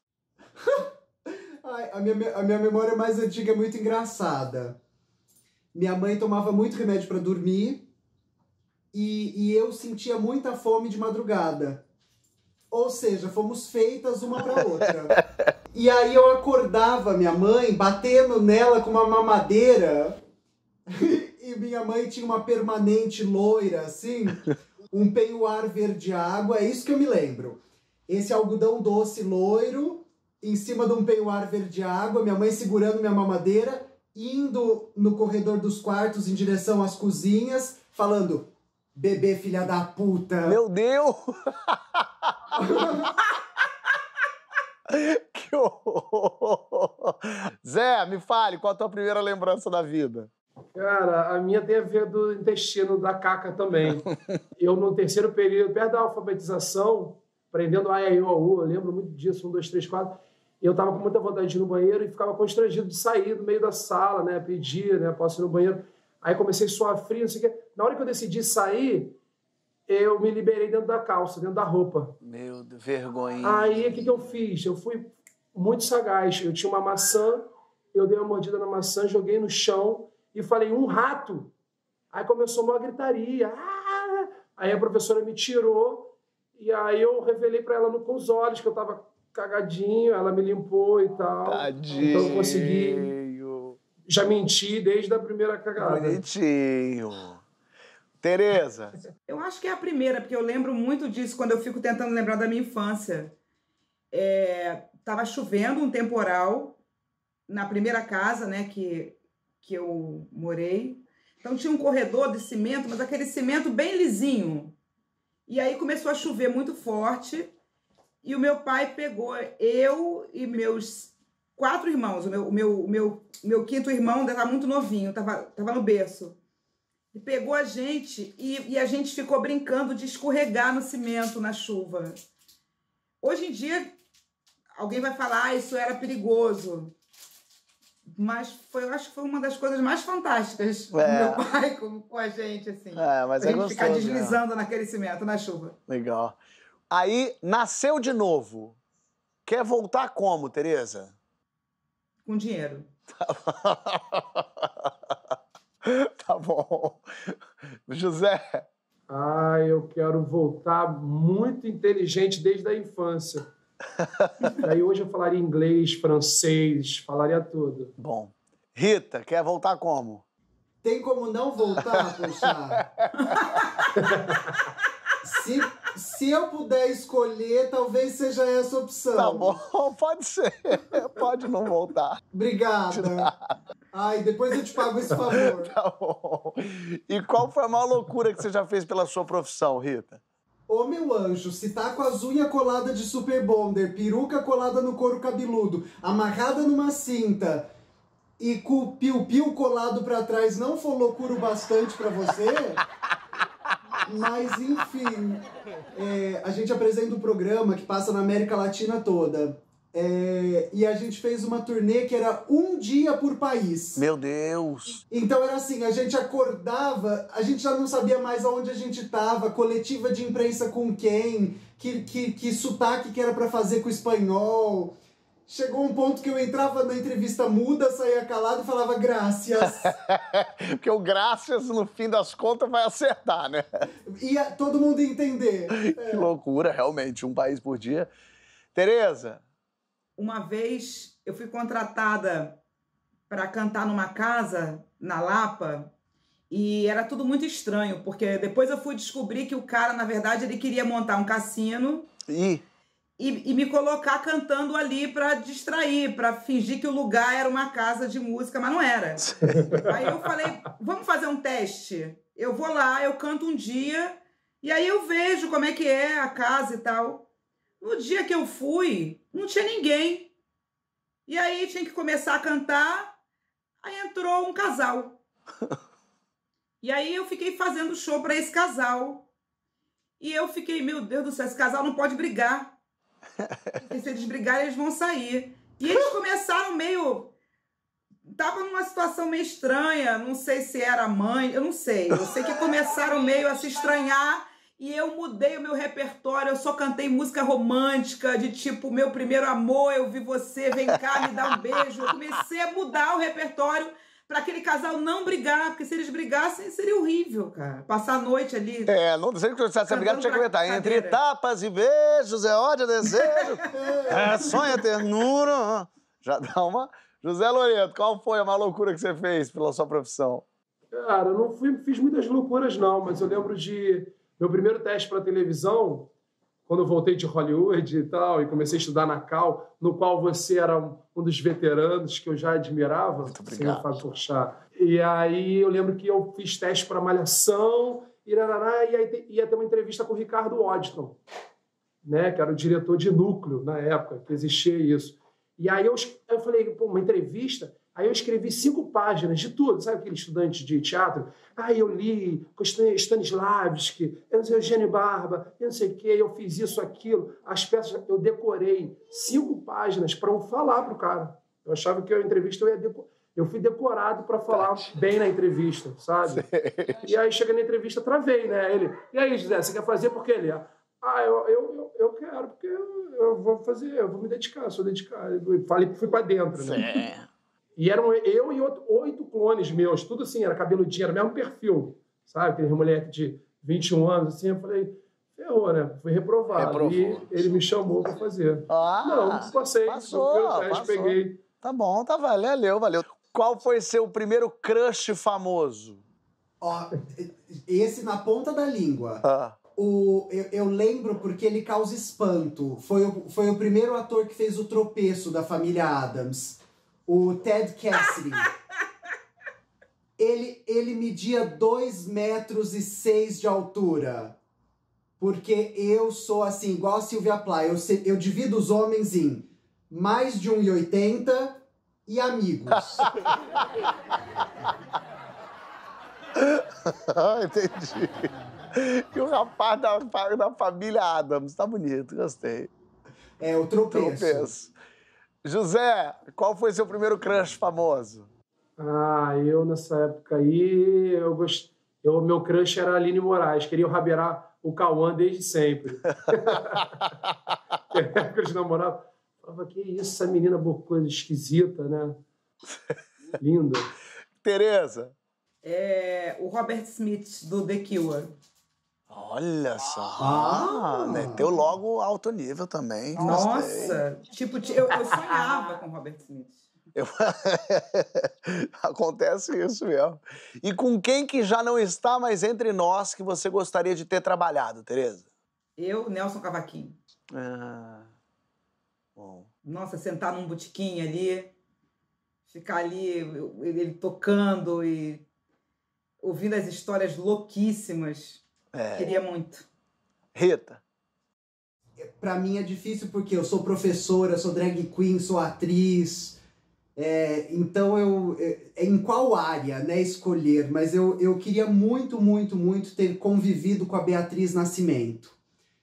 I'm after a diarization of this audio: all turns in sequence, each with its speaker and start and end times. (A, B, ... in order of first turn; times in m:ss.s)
0:00.6-0:00.8 A
0:01.6-0:04.8 A
0:05.7-0:07.9 A
0:08.9-0:11.8 A
0:12.7-0:15.1 A
0:14.9-0:15.5 B
0:15.7-0:20.2 A
0:20.9-0:40.6 A
0:40.5-0:42.5 B
0:42.5-0:43.1 A
0:44.9-0:50.3 B
0:50.7-0:54.0 C
0:54.6-1:09.2 C
1:09.9-1:12.1 C
1:12.2-1:14.4 B
1:13.4-1:21.5 C
1:22.1-1:33.1 C
1:31.4-1:33.8 B
1:34.0-1:36.2 C
1:35.8-1:37.4 B
1:38.2-1:39.0 B
1:39.3-1:43.3 D
1:44.1-1:46.8 D
1:47.5-1:54.8 D
1:55.5-1:57.5 D
1:58.2-2:06.4 D
2:07.1-2:12.2 D
2:13.2-2:14.0 D
2:14.8-2:16.9 D
2:18.1-2:25.8 D
2:20.9-2:21.4 B
2:22.9-2:24.4 B
2:25.9-2:26.4 B
2:26.9-2:28.8 B
2:29.4-2:31.1 B
2:32.2-2:32.9 D
2:33.2-2:34.9 B
2:35.8-2:37.3 B
2:37.9-2:38.7 B
2:39.1-2:43.4 C
2:44.0-2:44.6 B
2:44.6-2:47.9 C
2:48.0-2:50.2 B
2:50.8-2:52.8 A
2:51.9-2:53.6 B
2:53.3-2:53.8 D
2:54.0-2:54.6 C
2:55.2-2:59.6 A
2:59.1-3:02.2 B
3:02.3-3:03.3 A
3:02.9-3:03.5 B
3:03.9-3:05.7 A
3:05.4-3:10.2 B
3:10.7-3:17.7 A
3:18.4-3:22.8 A
3:24.0-3:25.4 A
3:25.9-3:34.0 A
3:34.0-3:35.0 B
3:35.1-3:44.9 A
3:45.5-3:49.9 A
3:49.6-3:53.6 B
3:54.1-3:56.3 A
3:55.8-3:58.1 B
3:58.7-3:59.4 B
4:00.2-4:02.6 D
4:03.3-4:05.9 D
4:06.5-4:12.1 D
4:12.3-4:12.6 B
4:13.2-4:27.2 D
4:19.3-4:19.9 B
4:19.4-4:20.2 C
4:27.8-4:30.3 D
4:31.3-4:33.2 D
4:33.8-4:35.2 D
4:36.8-4:39.3 D
4:40.2-4:42.7 D
4:43.4-4:43.8 B
4:43.8-4:47.3 D
4:48.3-5:08.9 D
5:08.9-5:20.4 B
5:09.9-5:11.2 D
5:13.4-5:13.6 D
5:13.7-5:14.5 A
5:20.9-5:26.1 C
5:26.7-5:41.2 C
5:33.2-5:34.0 B
5:42.0-6:06.5 C
6:06.3-6:07.1 B
6:07.0-6:17.0 C
6:16.6-6:17.3 B
6:17.8-6:31.4 C
6:26.5-6:27.3 B
6:28.7-6:36.0 B
6:36.6-6:39.2 A
6:39.2-6:39.6 B
6:39.8-6:48.5 A
6:50.2-6:54.4 A
6:55.2-7:03.0 A
7:06.4-7:12.7 B
7:13.4-7:14.5 A
7:13.9-7:14.7 B
7:15.4-7:18.3 B
7:18.8-7:27.0 C
7:26.4-7:27.3 B
7:27.9-7:32.2 C
7:33.4-7:33.9 C
7:34.4-7:35.1 B
7:35.6-7:38.3 D
7:39.1-7:44.0 B
7:40.2-7:41.5 A
7:43.2-7:46.6 D
7:46.9-7:55.3 B
7:55.8-7:57.0 D
7:57.3-7:58.1 B
7:59.2-7:59.5 B
7:59.6-8:01.5 D
8:02.5-8:05.3 D
8:06.2-8:08.4 D
8:08.7-8:09.1 B
8:08.9-8:09.6 D
8:10.3-8:10.8 B
8:12.0-8:16.4 A
8:17.0-8:25.4 A